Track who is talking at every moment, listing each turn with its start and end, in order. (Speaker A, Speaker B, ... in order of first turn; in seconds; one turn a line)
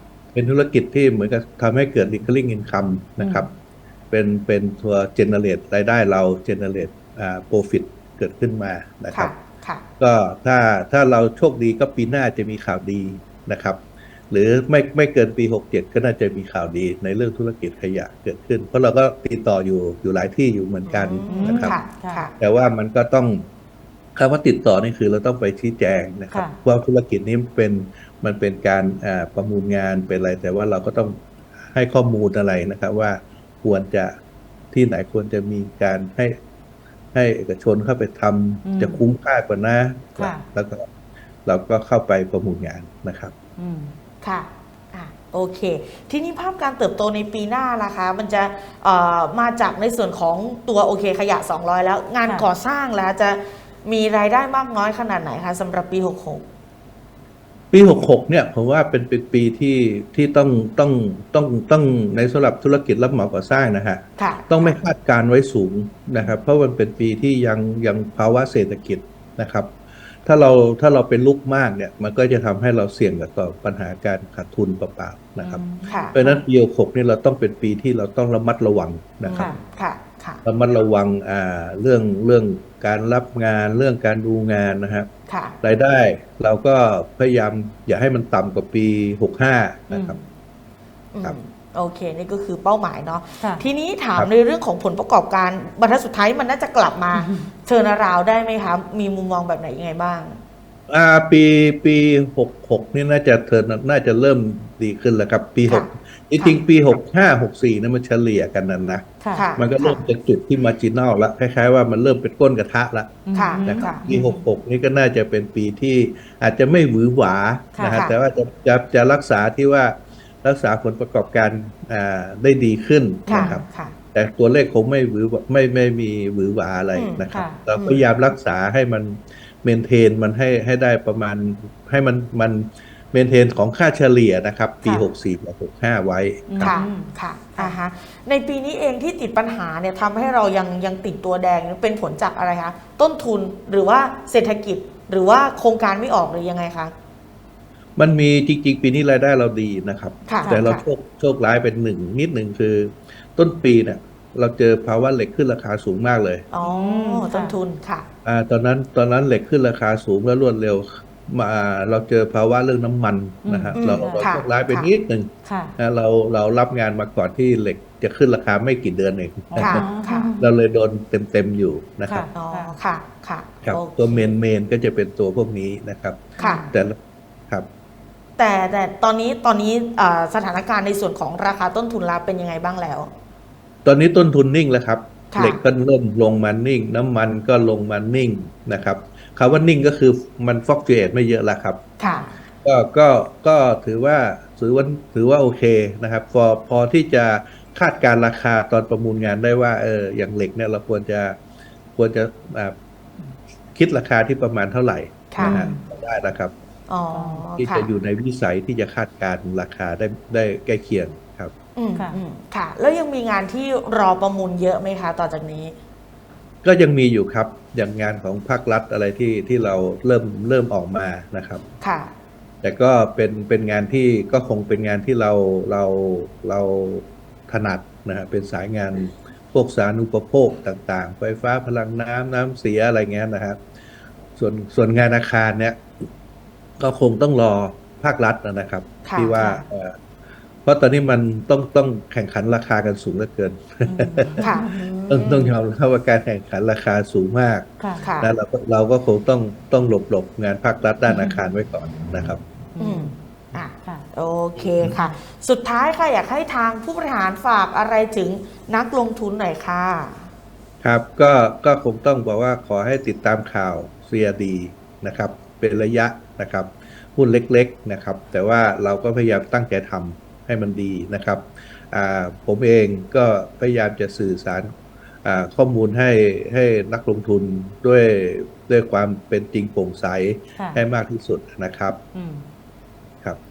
Speaker A: 0.3-3.5
Speaker B: 3.2-3.5
Speaker A: 4.1-9.3
Speaker C: 9.1-9.8
Speaker A: 10.0-21.8
Speaker C: 20.9-22.3
Speaker B: 21.3-22.2
Speaker A: 22.4-23.4
Speaker A: 24.1-31.2
Speaker B: 26.3-26.6
Speaker A: 31.7-34.1
Speaker A: 34.7-36.4
Speaker A: 37.1-40.8
Speaker B: 38.6-39.0
Speaker B: 40.2-40.4
Speaker A: 41.4-43.3
Speaker B: 43.6-43.9
Speaker C: 44.2-56.4
Speaker A: 57.7-69.7
Speaker C: 64.2-64.8
Speaker A: 70.2-75.6
Speaker B: 75.4-76.4
Speaker C: 75.9-76.2
Speaker A: 76.1-79.5
Speaker C: 79.2-80.4
Speaker B: 79.3-79.6
Speaker A: 80.4-85.1
Speaker C: 85.3-85.6
Speaker A: 85.6-90.2
Speaker B: 89.9-90.2
Speaker C: 91.1-100.4
Speaker B: 93.4-93.6
Speaker B: 97.1-97.5
Speaker A: 100.9-136.7
Speaker C: 105.7-106.6
Speaker B: 109.2-109.5
Speaker C: 109.3-110.0
Speaker B: 113.2-114.4
Speaker C: 113.3-114.1
Speaker B: 117.7-118.0
Speaker C: 117.9-118.1
Speaker C: 123.3-123.9
Speaker B: 123.3-123.6
Speaker C: 126.9-127.2
Speaker B: 127.3-127.6
Speaker C: 127.8-128.0
Speaker B: 136.5-137.8
Speaker C: 136.6-146.9
Speaker A: 147.9-156.5
Speaker C: 150.3-150.8
Speaker C: 156.5-158.1
Speaker B: 156.6-157.5
Speaker A: 158.2-169.9
Speaker B: 163.4-164.3
Speaker C: 163.7-164.9
Speaker B: 165.4-165.8
Speaker B: 169.5-170.5
Speaker C: 169.6-170.3
Speaker A: 170.4-172.3
Speaker B: 172.1-172.7
Speaker C: 172.3-174.3
Speaker A: 173.6-177.0
Speaker C: 176.4-176.7
Speaker B: 176.4-176.7
Speaker C: 178.4-183.1
Speaker A: 183.8-191.8
Speaker C: 185.3-185.6
Speaker C: 192.0-192.3
Speaker A: 192.6-201.4
Speaker A: 201.9-202.7
Speaker A: 203.7-206.5
Speaker C: 205.3-205.7
Speaker B: 205.4-205.8
Speaker C: 206.9-207.9
Speaker B: 207.1-207.4
Speaker A: 207.6-211.5
Speaker C: 211.7-215.7
Speaker A: 216.6-221.6
Speaker C: 221.8-222.1
Speaker A: 222.6-233.6
Speaker A: 234.3-235.8
Speaker A: 236.8-239.9
Speaker C: 239.0-239.6
Speaker A: 240.6-244.4
Speaker B: 243.8-244.8
Speaker C: 244.4-245.5
Speaker A: 245.1-247.7
Speaker B: 247.8-248.1
Speaker C: 248.0-248.3
Speaker A: 248.2-252.4
Speaker B: 251.1-251.4
Speaker B: 252.7-253.1
Speaker C: 252.8-260.3
Speaker A: 254.6-254.9
Speaker A: 260.8-274.7
Speaker A: 275.2-282.0
Speaker B: 280.6-280.8
Speaker B: 282.1-282.4